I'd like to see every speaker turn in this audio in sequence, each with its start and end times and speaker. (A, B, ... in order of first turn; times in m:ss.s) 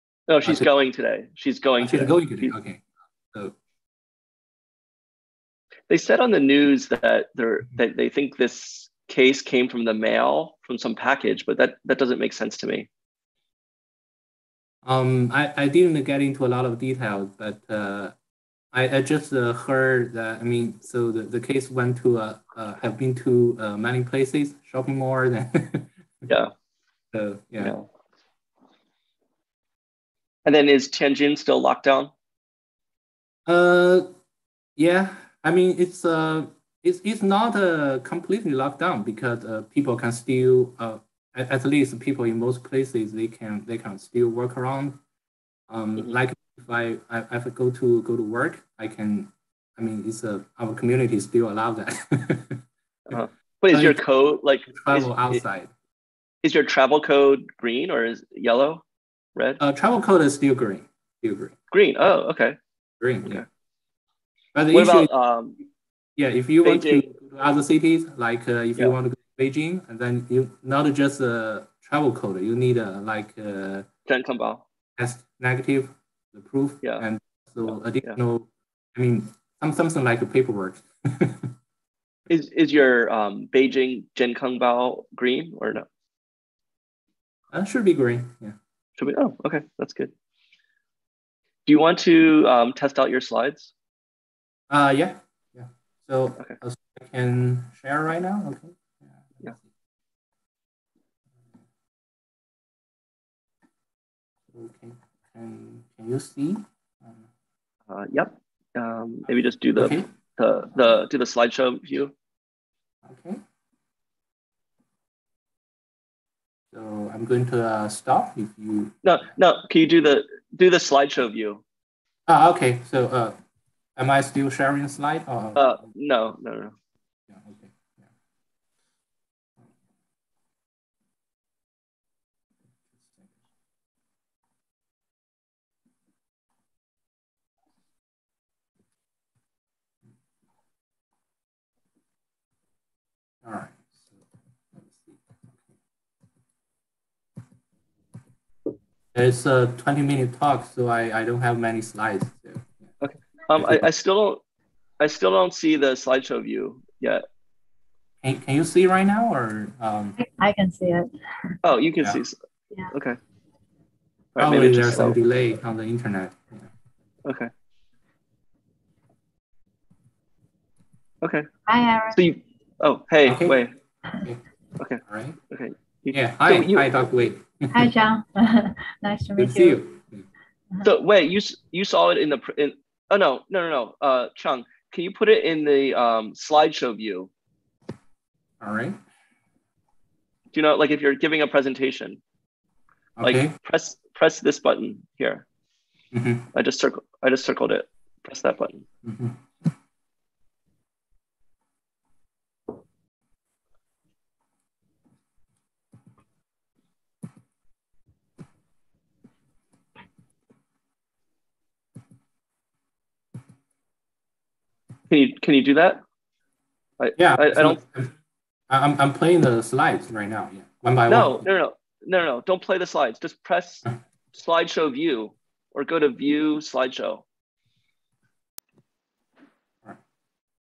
0:00.3-0:02.5 A
0:01.8-0:03.5 B
0:05.9-0:12.9 A
0:14.8-0:18.1 B
0:18.7-0:25.9 B
0:26.3-0:26.5 A
0:27.1-0:27.8 B
0:27.6-0:27.8 A
0:30.4-0:32.1 A
0:33.5-0:34.1 B
0:34.8-0:45.0 B
0:45.7-0:53.2 B
0:53.1-0:55.4 A
0:53.7-0:54.0 B
0:54.7-0:55.7 B
0:56.4-0:58.8 A
0:59.4-0:59.6 A
0:59.6-1:01.5 B
1:01.7-1:02.6 A
1:03.0-1:03.4 B
1:04.5-1:05.1 B
1:04.7-1:05.6 A
1:06.2-1:13.9 B
1:06.6-1:07.0 A
1:14.1-1:14.6 A
1:15.0-1:21.5 B
1:22.3-1:25.9 A
1:27.5-1:28.6 B
1:29.0-1:30.1 A
1:31.6-1:33.7 A
1:34.7-1:39.6 B
1:44.5-1:47.2 B
1:47.9-1:52.1 A
1:49.7-1:50.1 B
1:53.0-1:53.4 B
1:56.7-1:59.0 B
1:59.0-2:01.6 A
2:02.3-2:03.4 B
2:04.0-2:05.6 B
2:05.5-2:06.7 A
2:07.3-2:07.7 B
2:23.4-2:24.2 B
2:24.8-2:25.2 B
2:29.1-2:32.7 B
2:33.0-2:34.4 A
2:33.6-2:33.8 B
2:35.0-2:37.2 A
2:38.2-2:40.2 B
2:40.2-2:41.5 C
2:41.6-2:42.4 A
2:42.9-2:43.2 A
2:44.4-2:45.2 A
2:44.4-2:46.7 B
2:47.2-2:47.5 A
2:51.2-2:51.5 A
2:51.6-2:52.2 C
2:52.1-2:53.7 A
2:53.2-2:53.6 B
2:54.8-2:56.9 A
2:55.0-2:55.4 B
2:56.1-2:57.9 B
2:57.7-2:59.8 C
2:59.4-3:00.2 B
3:00.8-3:07.3 A
3:08.6-3:09.0 B
3:10.5-3:12.2 A
3:13.2-3:13.5 B
3:13.2-3:15.4 A
3:16.1-3:16.5 B
3:16.5-3:18.8 A
3:19.0-3:19.4 B
3:35.1-3:36.0 A
3:37.0-3:37.8 A
3:37.2-3:38.1 B
3:38.7-3:41.4 B
3:41.1-3:47.2 A